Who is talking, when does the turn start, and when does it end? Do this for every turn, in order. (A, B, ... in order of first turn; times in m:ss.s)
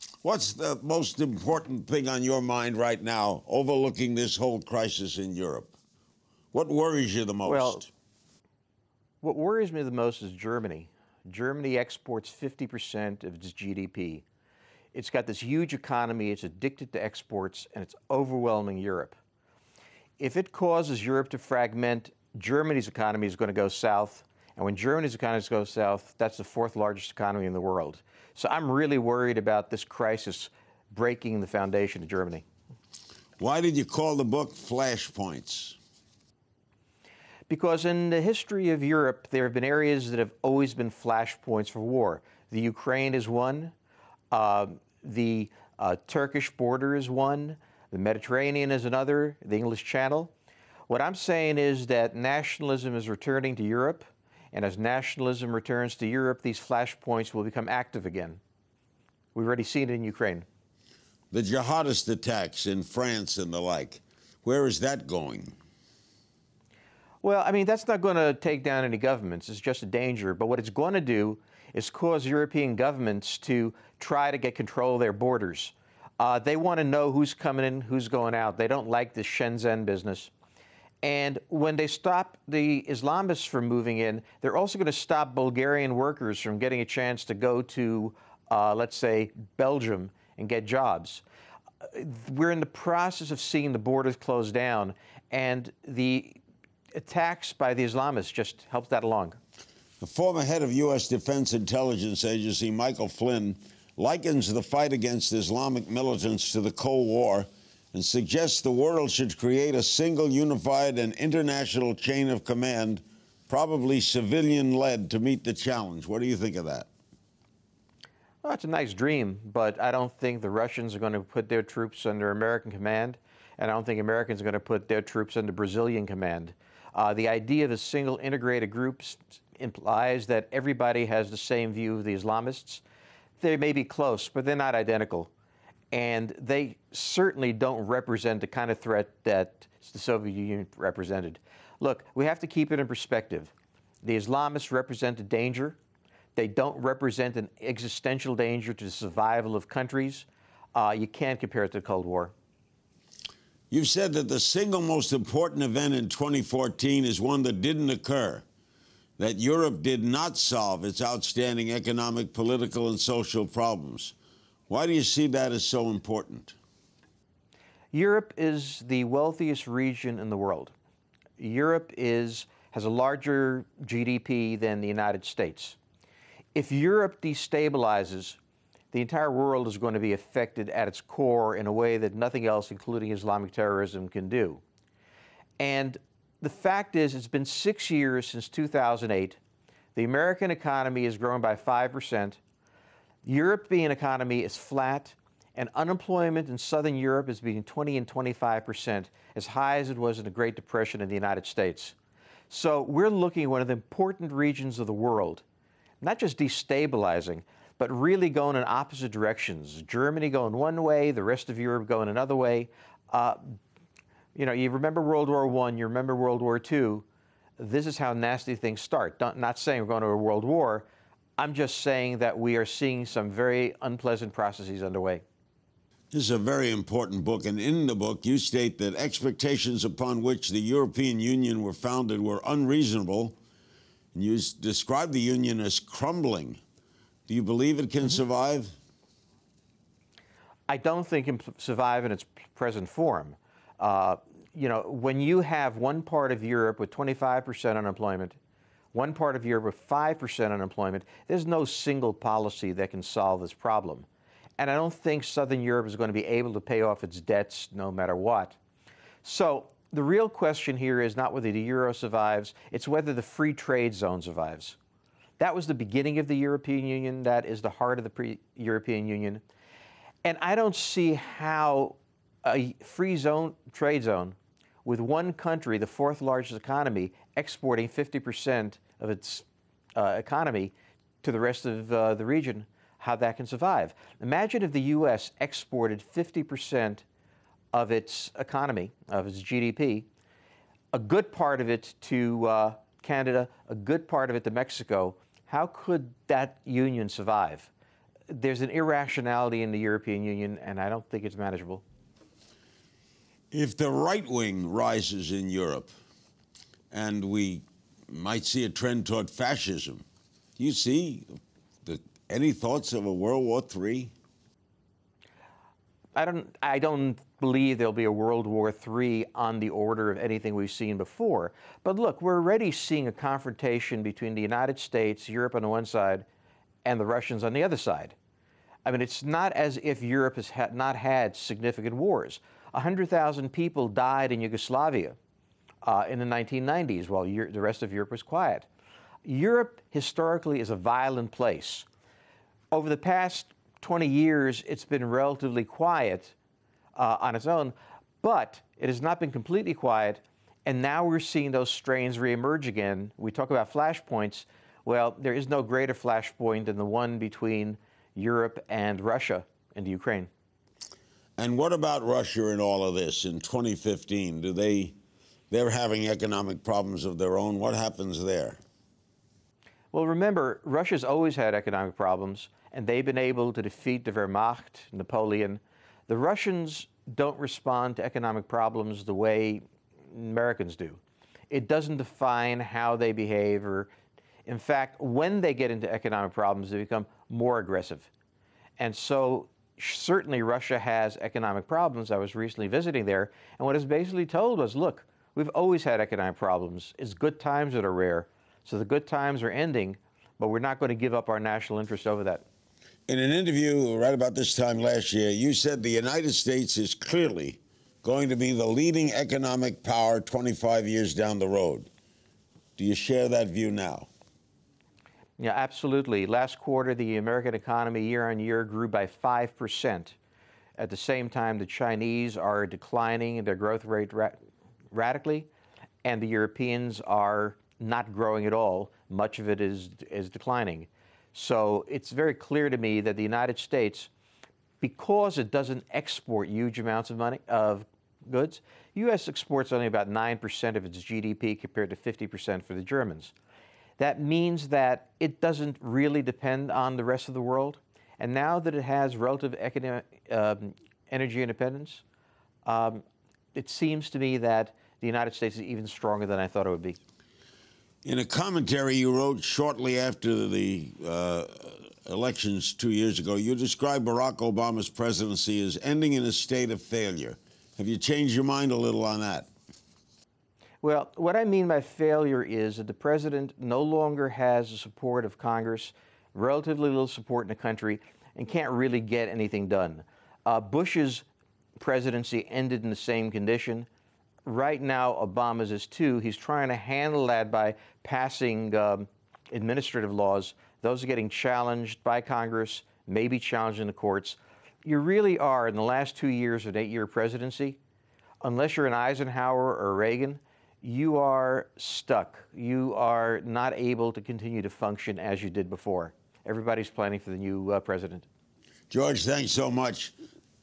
0:00.2-0:05.7 A
0:06.5-0:07.9 A
0:07.4-0:07.8 B
0:09.2-0:14.2 B
0:14.9-0:19.2 B
0:20.2-0:32.4 B
0:33.4-0:35.8 A
0:37.5-0:43.7 B
0:44.3-0:50.3 B
0:50.9-0:58.4 B
0:59.3-1:00.4 B
1:01.3-1:05.6 A
1:07.2-1:20.3 B
1:21.0-1:31.2 B
1:31.9-1:36.4 B
1:36.9-1:39.4 B
1:40.0-1:56.9 A
1:58.4-2:12.8 B
2:13.4-2:15.3 B
2:15.9-2:23.5 B
2:24.0-2:25.8 B
2:26.4-2:32.3 B
2:33.7-2:38.4 A
2:39.2-2:44.1 A
2:44.7-2:46.6 A
2:47.9-2:50.7 B
2:51.4-2:55.8 B
2:56.5-2:58.4 B
2:58.9-3:04.6 B
3:05.6-3:09.4 B
3:09.9-3:12.4 B
3:13.2-3:21.9 B
3:22.5-3:25.4 B
3:26.0-3:33.6 B
3:34.3-3:37.0 B
3:37.6-3:40.9 B
3:41.4-3:45.2 B
3:46.1-3:53.4 A
3:54.1-3:56.6 A
3:57.3-3:58.7 A
4:00.7-4:08.4 B
4:08.9-4:14.1 B
4:14.6-4:18.6 B
4:19.2-4:24.8 B
4:25.4-4:29.4 B
4:30.2-4:39.4 B
4:40.0-4:47.0 B
4:47.7-4:50.0 B
4:50.9-4:57.7 B
4:58.3-5:01.8 B
5:03.5-5:05.9 A
5:06.9-5:10.0 A
5:10.6-5:14.1 A
5:16.2-5:26.2 B
5:26.8-5:28.1 B
5:28.8-5:35.2 B
5:35.8-5:38.7 B
5:39.2-5:41.8 B
5:42.7-5:46.3 B
5:46.9-6:00.3 B
6:01.4-6:04.9 A
6:05.5-6:08.6 A
6:09.9-6:23.9 B
6:24.4-6:28.1 B
6:28.8-6:42.4 B
6:43.1-6:51.9 A
6:52.8-6:54.1 A
6:55.4-7:00.1 B
7:00.8-7:04.4 B
7:04.9-7:05.5 B
7:06.0-7:14.1 B
7:14.8-7:23.3 B
7:24.0-7:32.0 B
7:32.6-7:33.0 B
7:33.5-7:37.0 B
7:38.0-7:49.5 A
7:50.8-8:01.2 B
8:01.8-8:03.9 B
8:04.4-8:17.8 B
8:18.4-8:28.2 B
8:28.9-8:30.1 A